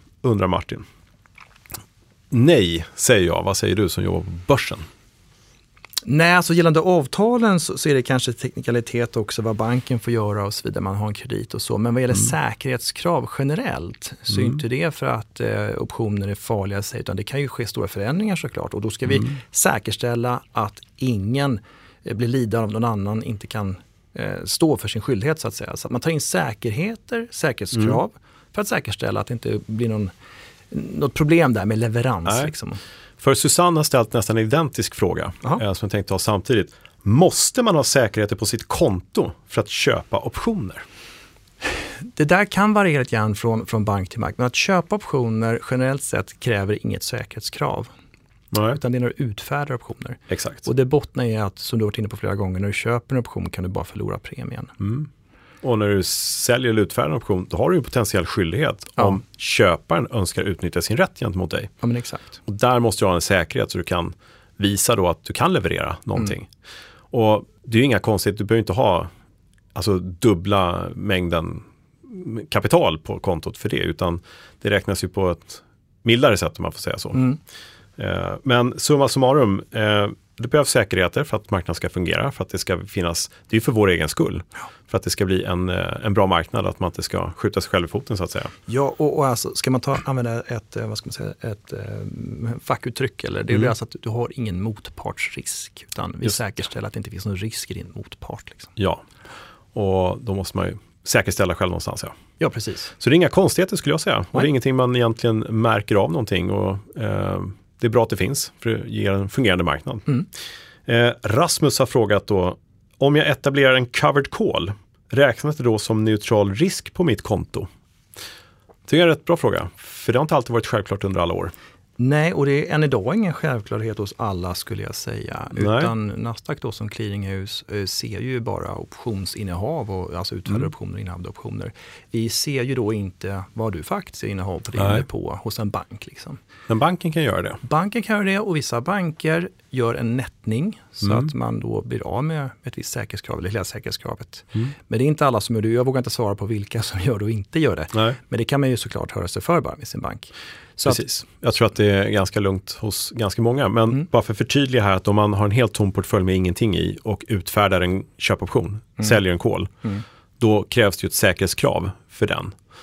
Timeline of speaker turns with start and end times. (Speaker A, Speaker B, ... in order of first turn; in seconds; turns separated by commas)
Speaker A: 0.2-0.8, Speaker A: 2.3-4.8, Speaker B: 6.0-30.1, Speaker B: 30.7-32.8, Speaker A: 33.2-40.8, Speaker B: 42.0-47.9, Speaker A: 48.5-48.8, Speaker B: 48.7-54.7, Speaker A: 50.3-50.7, Speaker A: 54.8-55.1, Speaker A: 55.6-61.7, Speaker B: 61.8-62.4, Speaker A: 62.4-66.5, Speaker A: 67.1-69.1, Speaker A: 69.7-77.3, Speaker A: 78.0-88.5, Speaker B: 88.7-98.7, Speaker A: 98.8-99.0, Speaker A: 99.7-102.1, Speaker B: 102.4-102.9, Speaker A: 103.0-110.2, Speaker A: 110.9-117.7, Speaker A: 118.9-121.5, Speaker B: 122.0-136.4, Speaker A: 125.5-125.9, Speaker A: 134.8-135.0, Speaker A: 136.7-137.6, Speaker B: 137.6-151.0, Speaker A: 141.0-141.3, Speaker A: 150.8-159.7, Speaker A: 160.4-162.5